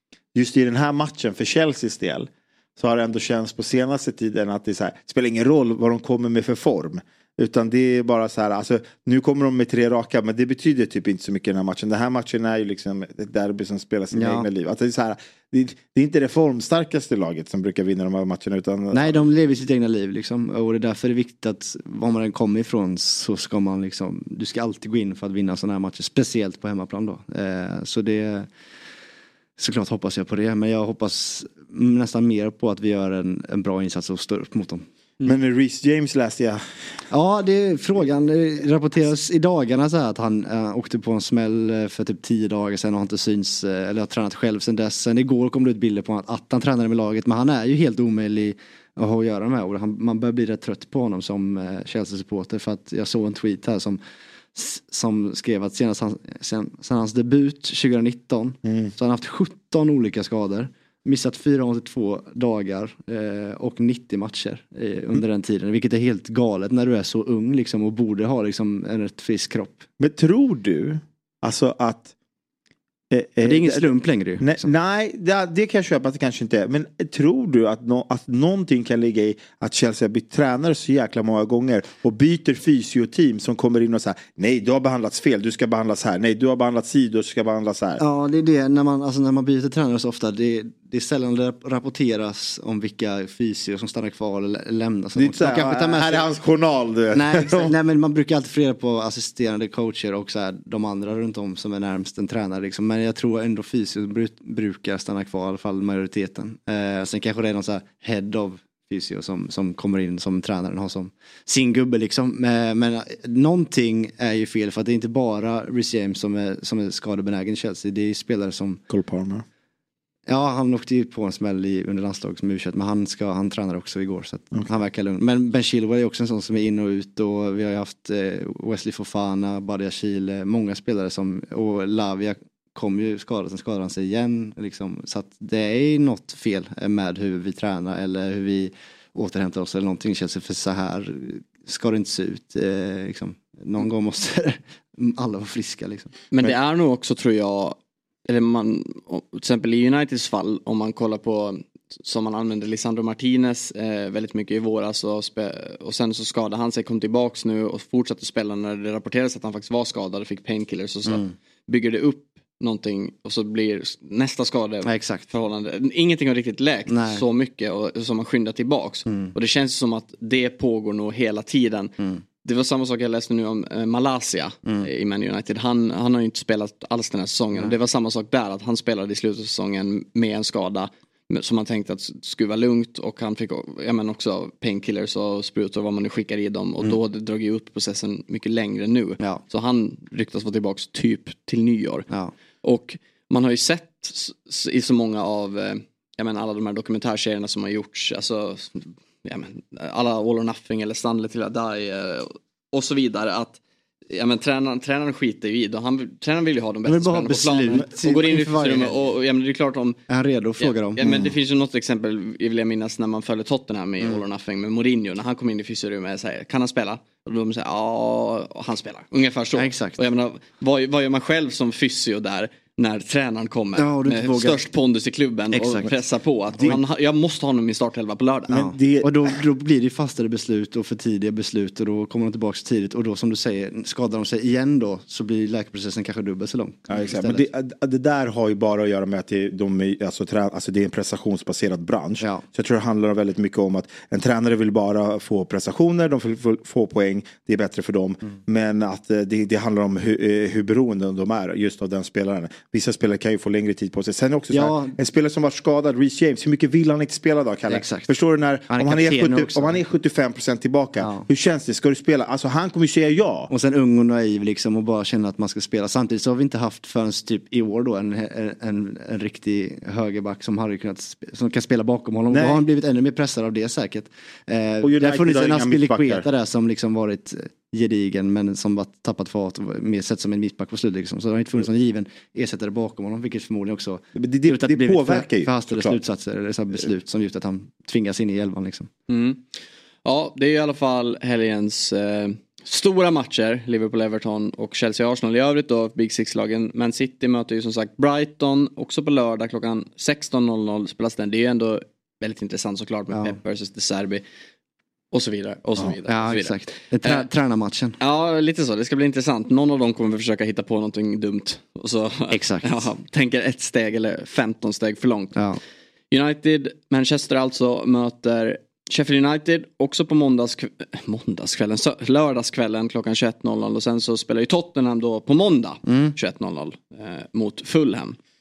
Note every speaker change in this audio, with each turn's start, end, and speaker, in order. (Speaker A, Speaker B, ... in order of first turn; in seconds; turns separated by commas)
Speaker A: 0.3-19.3, Speaker B: 14.1-14.5, Speaker B: 18.9-28.5, Speaker B: 29.6-35.3, Speaker A: 35.2-36.6, Speaker B: 37.1-54.0, Speaker B: 54.5-69.8, Speaker A: 58.6-58.9, Speaker A: 70.0-72.1, Speaker A: 73.1-73.9, Speaker B: 73.4-74.7, Speaker A: 74.4-88.0, Speaker B: 88.0-96.3, Speaker A: 95.2-97.7, Speaker B: 97.1-118.8, Speaker A: 118.9-119.4, Speaker B: 120.3-146.1, Speaker C: 146.3-171.9, Speaker B: 161.1-161.3, Speaker B: 164.8-165.2, Speaker B: 166.9-167.2, Speaker B: 169.1-169.3, Speaker C: 172.4-192.1, Speaker C: 192.6-210.0, Speaker B: 206.8-209.1, Speaker B: 210.1-211.3, Speaker C: 210.6-228.5, Speaker B: 219.5-220.0, Speaker B: 223.8-224.6, Speaker B: 225.5-225.9, Speaker A: 228.5-229.3, Speaker B: 228.5-237.5, Speaker A: 236.9-263.5, Speaker B: 254.5-254.9, Speaker B: 257.7-258.1, Speaker B: 258.7-259.8, Speaker B: 261.0-261.2, Speaker B: 263.5-288.9, Speaker A: 272.3-272.6, Speaker A: 274.8-276.2, Speaker A: 284.1-286.0, Speaker C: 289.1-304.2, Speaker B: 303.1-303.4, Speaker C: 305.1-307.3, Speaker B: 306.1-308.0, Speaker C: 308.0-315.4, Speaker B: 312.3-312.9, Speaker C: 316.1-328.2, Speaker B: 325.8-326.1